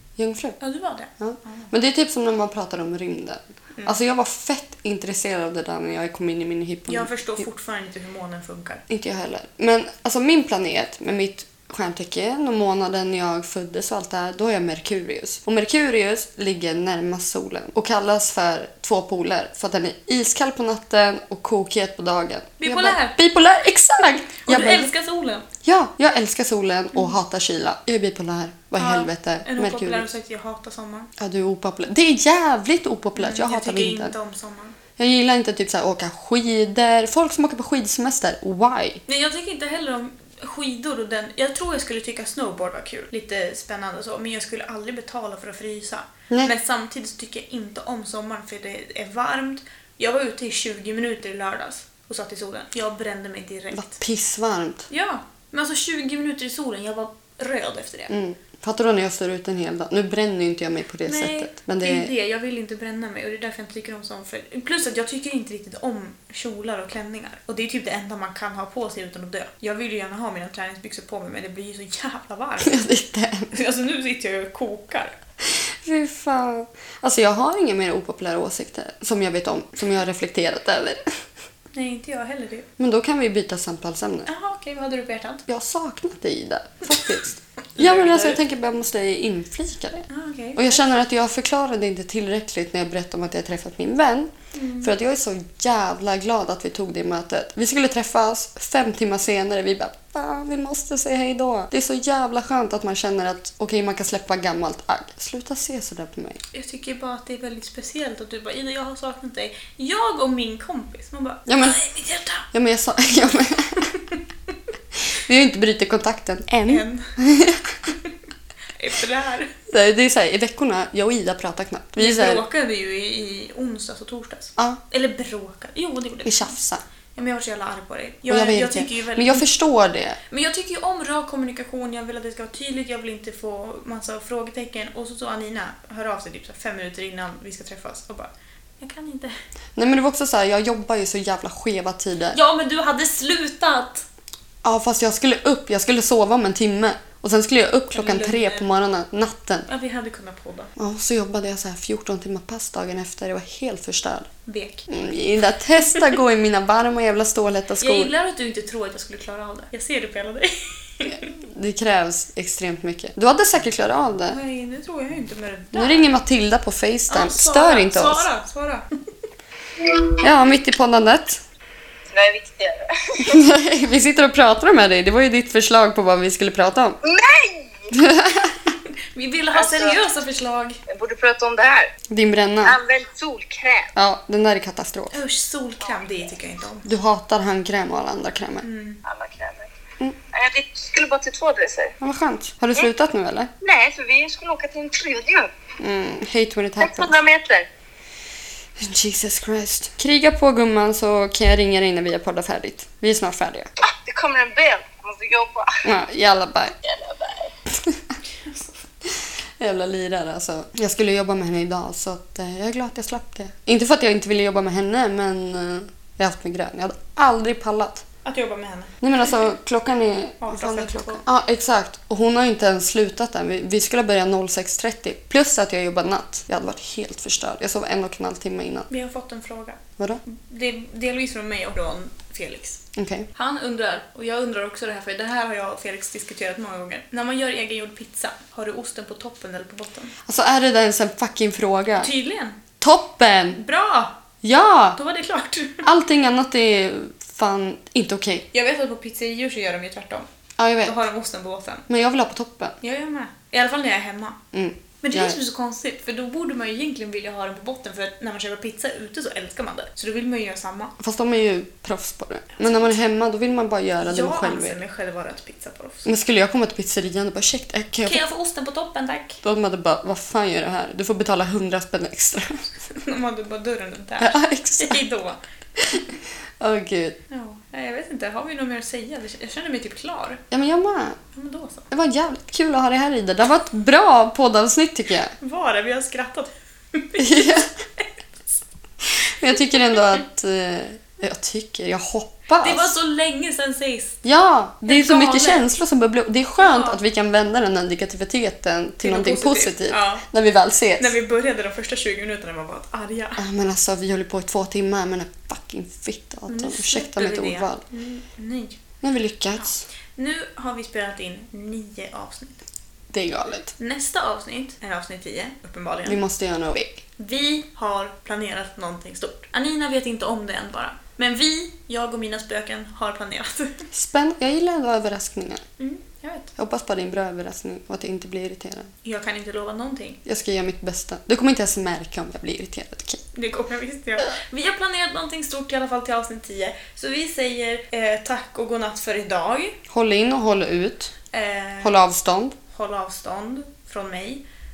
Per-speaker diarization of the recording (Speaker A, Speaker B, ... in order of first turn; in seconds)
Speaker A: 0.2-0.6, 1.2-7.1, 8.9-24.9, 25.6-30.1, 31.2-34.1, 35.0-39.0, 53.7-54.9, 58.1-62.1, 72.6-73.5, 75.5-81.2, 82.8-84.3, 85.5-106.4, 111.5-111.8, 112.5-113.9, 115.1-117.8, 119.7-122.4, 126.3-126.8, 128.3-130.2, 139.8-142.4, 144.6-149.7, 150.8-154.3, 154.9-158.1, 161.0-164.4, 165.7-168.3, 170.2-171.4, 173.2-177.0, 177.9-178.7, 182.1-182.8, 184.0-185.2, 186.8-188.7, 192.0-193.5, 195.8-197.1, 198.8-203.7, 205.8-206.8, 207.8-208.2, 209.1-218.1, 219.0-228.9, 232.9-233.3, 240.3-242.1, 242.8-243.6, 244.4-245.0, 245.8-248.5, 250.6-251.0, 251.9-252.8, 254.5-255.4, 261.0-264.8, 266.1-268.2, 269.4-272.7, 274.2-275.0, 275.8-276.1, 276.6-277.2, 280.5-281.2, 281.9-285.3, 287.2-287.7, 289.1-292.9, 294.2-301.1, 303.4-307.8, 309.0-309.9, 313.1-313.7, 316.1-317.0, 323.9-325.6, 326.6-328.9, 330.2-333.2, 339.9-341.1, 341.8-342.6
Speaker B: 0.6-1.7, 6.9-8.8, 22.6-23.2, 24.4-25.5, 28.8-31.1, 33.2-34.8, 39.1-53.9, 54.9-58.1, 61.1-72.8, 73.5-75.2, 81.7-82.7, 84.3-85.5, 87.8-88.4, 90.1-90.8, 94.5-94.9, 106.5-112.5, 113.9-114.2, 116.7-117.1, 117.9-118.1, 118.8-119.5, 122.0-126.6, 127.2-129.5, 130.3-139.4, 142.3-144.1, 147.9-148.7, 149.7-150.7, 154.5-154.9, 157.8-161.3, 164.3-166.1, 167.1-168.9, 179.1-180.8, 185.1-186.9, 188.6-189.0, 208.4-208.7, 218.2-219.0, 220.4-221.2, 228.9-232.8, 233.3-240.1, 242.0-242.6, 243.5-244.2, 245.0-245.9, 248.5-250.3, 250.8-251.8, 252.8-254.4, 255.0-260.9, 262.6-262.9, 264.0-266.1, 268.0-269.4, 272.9-275.4, 277.3-280.4, 281.3-281.9, 285.4-288.6, 289.5-290.2, 292.6-294.2, 294.9-295.7, 296.6-297.0, 299.0-300.3, 301.0-303.4, 306.5-308.8, 309.6-312.6, 313.8-316.2, 317.1-323.9, 325.8-326.5, 329.0-330.2, 333.3-339.8, 341.3-342.0, 342.7-344.4
Speaker C: 169.8-170.2, 172.1-173.4, 177.0-177.9, 179.5-180.0, 180.9-181.9, 182.6-183.9, 189.1-189.7, 190.3-191.9, 193.6-195.5, 196.8-197.7, 203.8-205.8, 206.8-207.5